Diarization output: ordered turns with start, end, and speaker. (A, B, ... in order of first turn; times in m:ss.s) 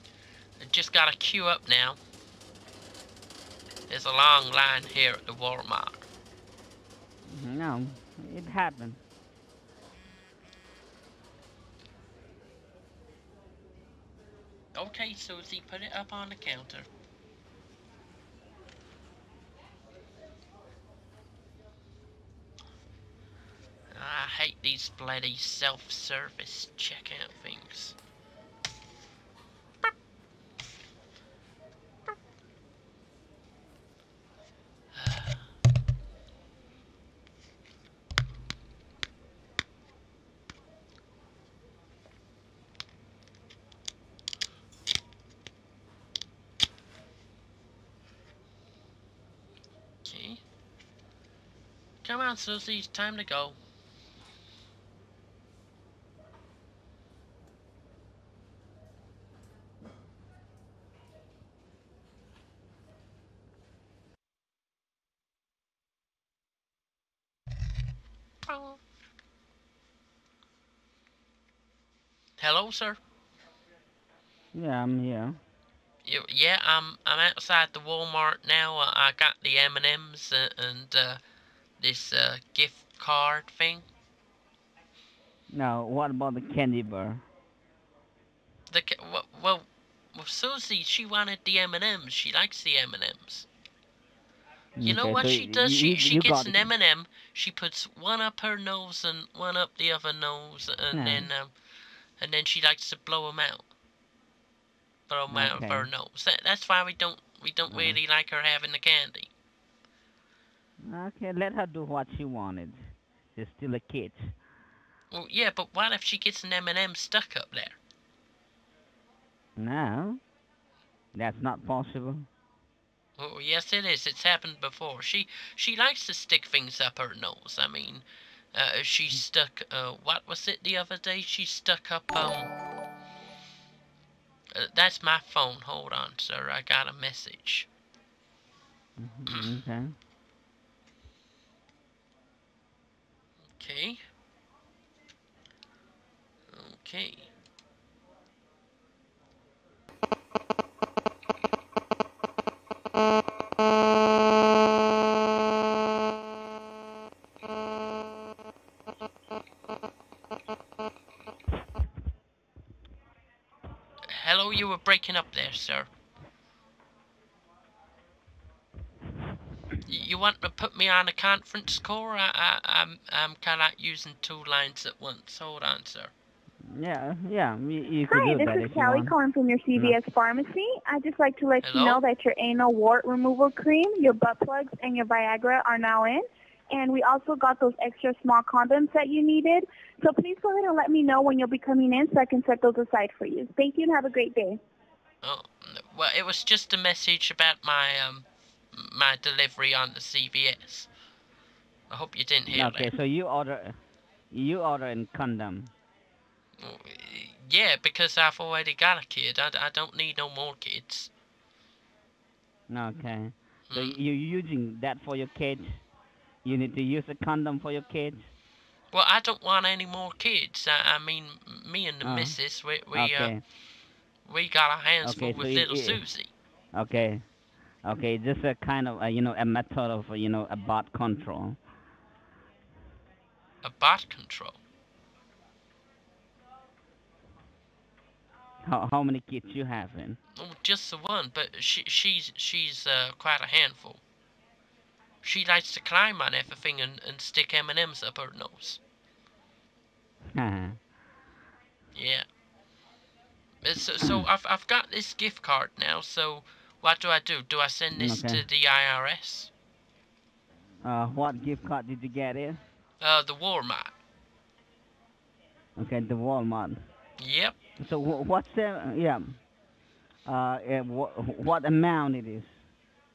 0:00.6-0:02.0 A
0:03.9-0:06.0 A
0:07.2-0:09.0 B
0:14.7-0:16.9 A
0:23.9-0:28.0 A
0:34.9-0:35.4 A
0:50.0-0:50.4 A
0:52.0-0:53.6 A
1:08.5-1:08.8 A
1:12.4-1:13.0 A
1:14.5-1:15.4 B
1:16.0-1:21.2 A
1:21.8-1:23.8 A
1:25.5-1:27.2 B
1:28.7-1:33.4 A
1:34.8-1:36.7 B
1:34.8-1:41.5 A
1:40.9-1:41.3 B
1:42.2-1:43.6 A
1:45.1-1:49.3 A
1:45.3-1:45.9 B
1:47.7-1:48.0 B
1:50.9-1:54.3 B
1:55.1-1:57.8 A
1:59.6-2:00.2 B
2:01.1-2:02.3 B
2:03.2-2:12.5 A
2:14.5-2:17.7 A
2:19.0-2:19.9 B
2:23.5-2:24.0 A
2:26.5-2:27.3 A
2:44.0-2:45.9 A
2:49.8-2:56.1 A
2:56.7-2:59.1 B
2:58.1-3:14.6 C
3:01.6-3:02.0 A
3:15.2-3:20.9 A
3:21.9-3:22.9 A
3:22.5-3:23.8 B
3:24.3-3:25.7 B
3:26.6-3:31.1 A
3:32.7-3:35.8 B
3:33.7-3:34.0 A
3:36.4-3:38.2 B
3:38.9-3:43.3 A
3:42.0-3:42.4 B
3:42.9-3:43.4 B
3:44.2-3:46.3 A
3:45.0-3:46.0 B
3:46.7-3:47.2 B
3:47.8-3:51.6 B
3:53.6-3:54.6 A
3:58.6-4:00.2 B
4:00.4-4:04.0 A
4:05.2-4:08.8 A
4:10.3-4:10.8 B
4:11.9-4:12.2 A
4:13.6-4:19.5 A
4:17.9-4:18.4 B
4:20.8-4:22.6 B
4:23.0-4:23.9 A
4:25.8-4:26.8 B
4:27.2-4:27.5 A
4:27.8-4:29.4 B
4:30.2-4:32.5 B